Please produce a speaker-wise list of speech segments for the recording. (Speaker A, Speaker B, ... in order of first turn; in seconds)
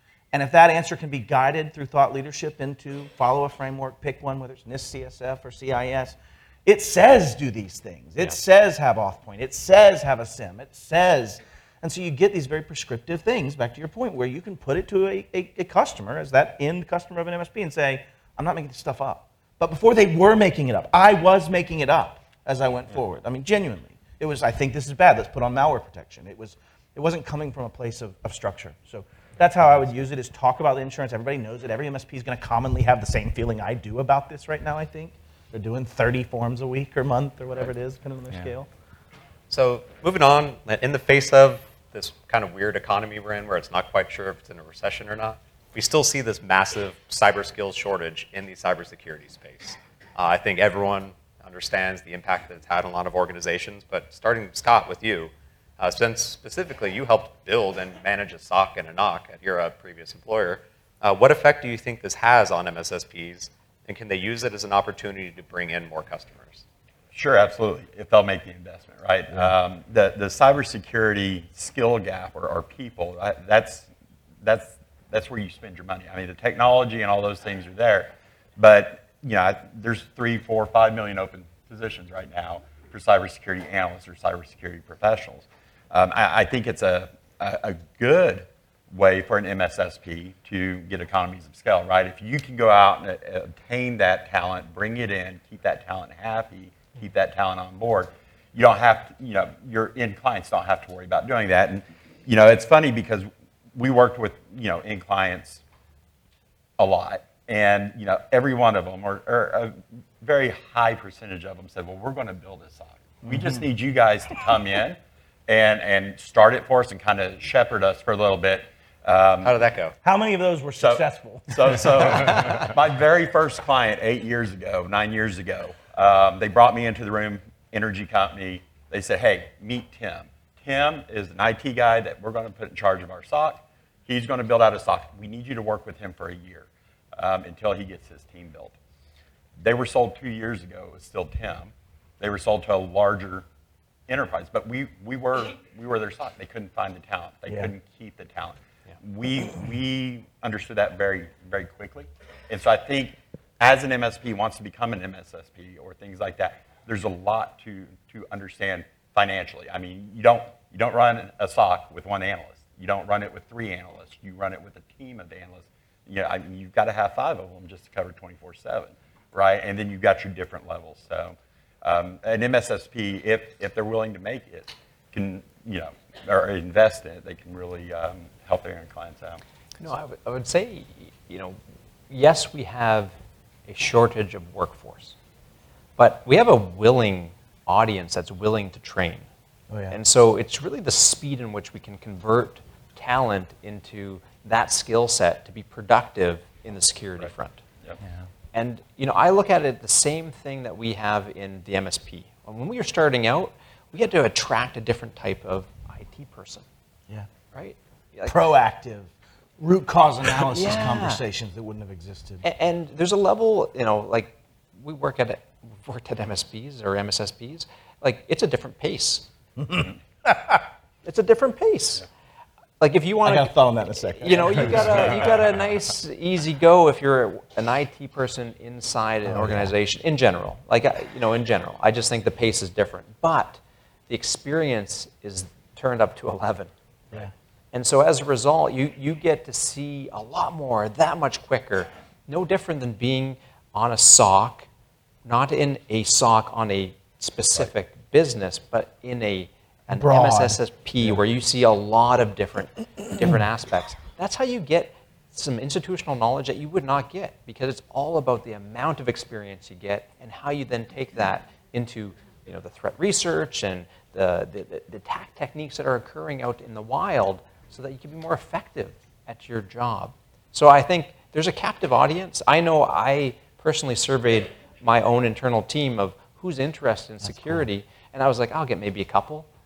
Speaker A: 0.3-38.7, 113.2-113.6, 120.0-122.6, 189.7-190.0, 208.2-212.4, 219.6-220.6, 223.2-225.2, 229.2-229.7, 249.9-250.6, 277.2-277.6
Speaker B: 39.5-66.6, 119.4-119.9
Speaker C: 67.1-73.9, 74.4-105.6, 106.8-119.6, 120.8-138.8, 139.6-143.4, 144.1-179.4
Speaker D: 179.8-181.6, 182.1-183.1, 183.7-185.2, 186.0-189.2, 189.9-197.6, 198.5-206.7, 207.5-208.4, 210.5-211.2, 212.4-219.3, 221.0-222.0, 222.8-223.5, 224.1-236.7, 237.7-244.7, 245.2-279.5